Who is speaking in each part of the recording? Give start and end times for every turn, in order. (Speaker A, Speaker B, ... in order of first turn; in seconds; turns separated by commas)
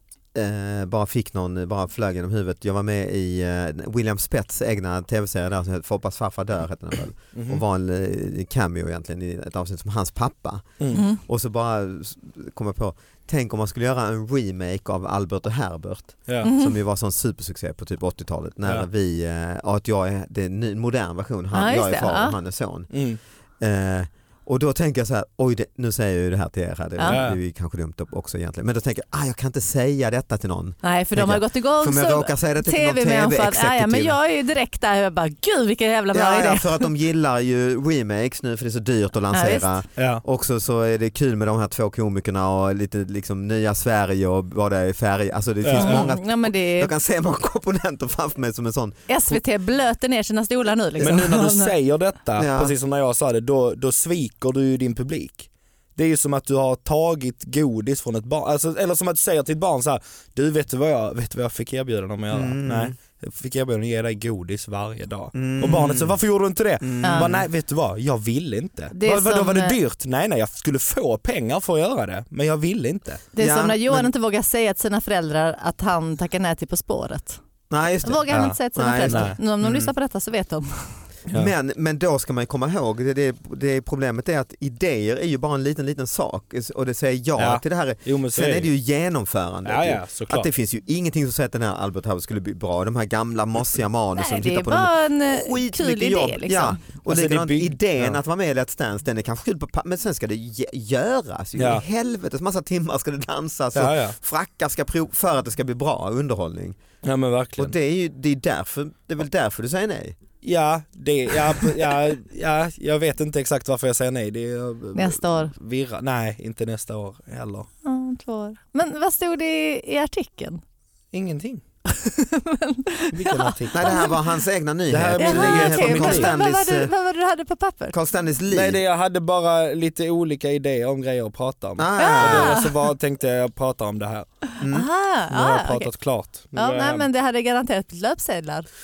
Speaker A: 0.3-22.9, Speaker B: 7.3-7.6, Speaker C: 10.9-11.2, Speaker C: 16.4-16.8, Speaker C: 21.5-22.4, Speaker B: 22.9-23.2, Speaker A: 23.6-34.1, Speaker C: 27.0-27.2, Speaker B: 27.1-27.4, Speaker C: 30.8-36.9, Speaker A: 36.1-49.0, Speaker C: 39.3-39.8, Speaker B: 40.0-40.2, Speaker B: 45.6-46.1, Speaker C: 45.8-46.9, Speaker C: 49.1-51.7, Speaker B: 51.0-73.2, Speaker A: 52.4-52.7, Speaker A: 62.3-62.9, Speaker A: 65.3-66.2, Speaker A: 66.8-67.5, Speaker C: 67.0-67.3, Speaker C: 68.9-69.8, Speaker C: 73.3-77.4, Speaker A: 73.4-74.1, Speaker A: 77.7-79.9, Speaker C: 78.0-81.0, Speaker B: 78.3-79.4, Speaker A: 81.3-106.8, Speaker B: 87.4-88.7, Speaker B: 89.6-90.5, Speaker C: 94.1-96.8, Speaker B: 97.1-98.2, Speaker B: 101.6-101.8, Speaker B: 103.7-104.2, Speaker B: 107.0-107.7, Speaker A: 107.6-110.2, Speaker B: 110.4-117.7, Speaker C: 114.9-115.5, Speaker C: 117.8-120.6, Speaker B: 121.1-121.6, Speaker C: 121.9-124.2, Speaker B: 123.1-124.0, Speaker A: 123.7-126.9, Speaker B: 124.9-126.3, Speaker C: 125.2-127.9, Speaker A: 127.9-128.8, Speaker B: 128.5-134.3, Speaker A: 131.8-132.6, Speaker C: 132.0-132.7, Speaker A: 134.6-134.9, Speaker C: 134.7-135.9, Speaker B: 135.3-137.1, Speaker C: 136.5-138.7